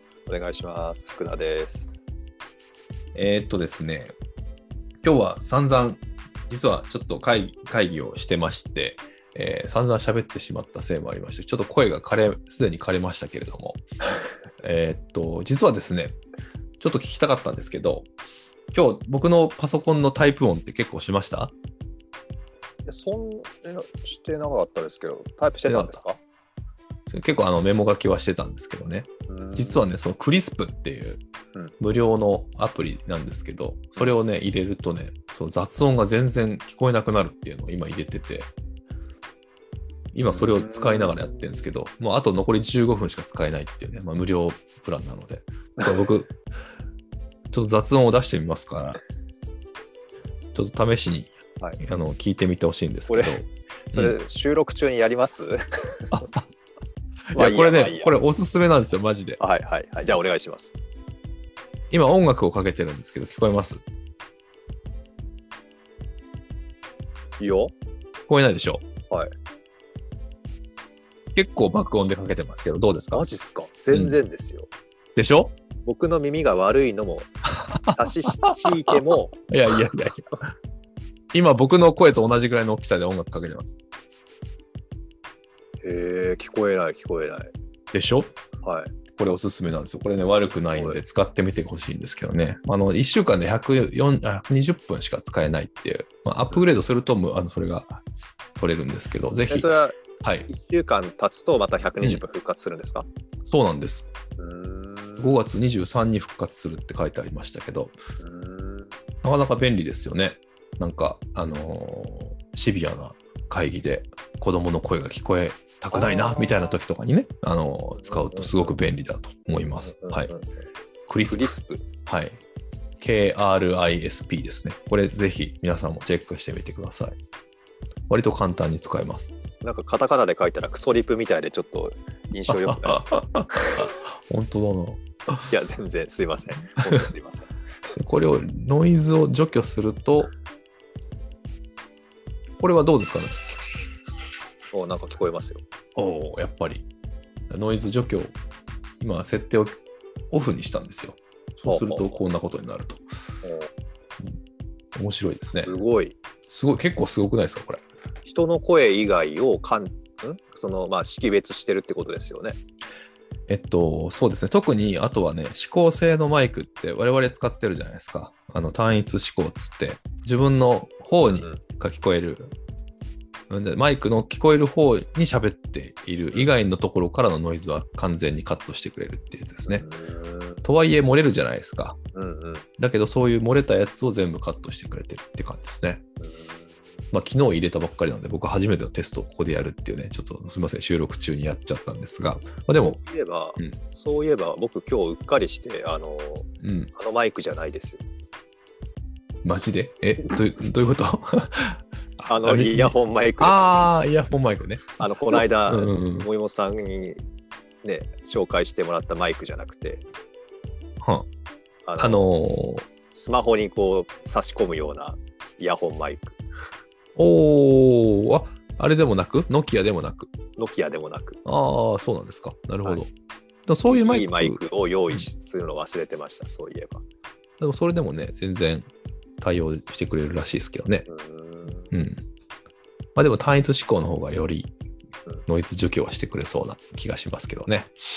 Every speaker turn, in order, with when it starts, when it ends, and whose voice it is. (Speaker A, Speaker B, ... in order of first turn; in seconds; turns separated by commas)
Speaker A: 0.3-2.0, Speaker B: 3.1-4.1, Speaker B: 5.0-13.8, Speaker B: 14.6-16.2, Speaker B: 16.8-18.1, Speaker B: 18.7-21.5, Speaker A: 22.9-26.2, Speaker B: 25.7-26.0, Speaker B: 27.1-31.2, Speaker A: 29.3-29.8, Speaker B: 31.8-38.5, Speaker B: 40.1-46.3, Speaker A: 40.3-41.1, Speaker B: 47.5-49.0, Speaker B: 50.5-54.1, Speaker A: 53.1-53.4, Speaker A: 53.9-56.2, Speaker B: 56.1-56.4, Speaker B: 57.3-59.4, Speaker A: 57.3-58.1, Speaker A: 59.4-60.8, Speaker B: 61.9-63.8, Speaker A: 67.4-67.7, Speaker B: 68.3-68.8, Speaker B: 71.3-73.3, Speaker A: 73.1-74.7, Speaker B: 75.2-75.5, Speaker A: 75.8-77.3, Speaker B: 77.7-78.6, Speaker A: 77.9-79.3, Speaker B: 79.5-80.5, Speaker B: 81.3-83.8, Speaker A: 85.8-87.5, Speaker B: 87.9-88.3, Speaker A: 88.6-88.9, Speaker B: 89.2-99.7, Speaker A: 90.5-91.0, Speaker A: 99.5-100.0, Speaker B: 100.2-100.5, Speaker A: 100.5-103.0, Speaker B: 103.5-104.1, Speaker A: 104.4-105.4, Speaker B: 105.2-108.0, Speaker A: 108.2-108.9, Speaker B: 109.2-120.3, Speaker A: 115.9-116.8, Speaker A: 118.0-118.7, Speaker A: 119.8-120.5, Speaker B: 121.1-121.5, Speaker A: 121.2-121.8, Speaker B: 122.0-122.4, Speaker B: 123.0-127.2, Speaker B: 128.1-129.3, Speaker A: 129.6-133.9, Speaker B: 132.5-135.0, Speaker A: 135.5-137.5, Speaker B: 138.0-140.3, Speaker B: 142.6-143.6, Speaker A: 144.7-145.6, Speaker B: 145.9-146.8, Speaker B: 147.5-148.3, Speaker B: 149.0-149.8, Speaker B: 150.3-153.0, Speaker A: 151.7-152.1, Speaker A: 153.4-153.7, Speaker B: 154.9-155.7, Speaker A: 155.6-156.2, Speaker B: 156.5-157.8, Speaker A: 158.2-162.6, Speaker B: 163.5-172.5, Speaker A: 171.2-171.6, Speaker B: 173.5-179.8, Speaker A: 179.7-180.7, Speaker B: 180.6-182.0, Speaker A: 182.1-182.7, Speaker B: 182.8-186.0, Speaker A: 186.2-186.8, Speaker B: 187.1-193.0, Speaker A: 192.7-198.0, Speaker B: 196.6-196.9, Speaker B: 199.4-206.3, Speaker A: 202.3-203.9, Speaker A: 205.0-207.2, Speaker A: 207.8-210.0, Speaker B: 211.0-211.3, Speaker A: 211.8-212.3, Speaker B: 212.0-212.8, Speaker A: 213.1-216.4, Speaker B: 217.2-220.3, Speaker A: 220.6-221.4, Speaker B: 221.4-223.1, Speaker B: 223.7-224.6, Speaker A: 223.8-227.0, Speaker B: 227.6-228.9, Speaker B: 229.4-231.1, Speaker A: 231.1-231.9, Speaker B: 231.9-232.2, Speaker B: 233.1-234.7, Speaker B: 235.5-237.9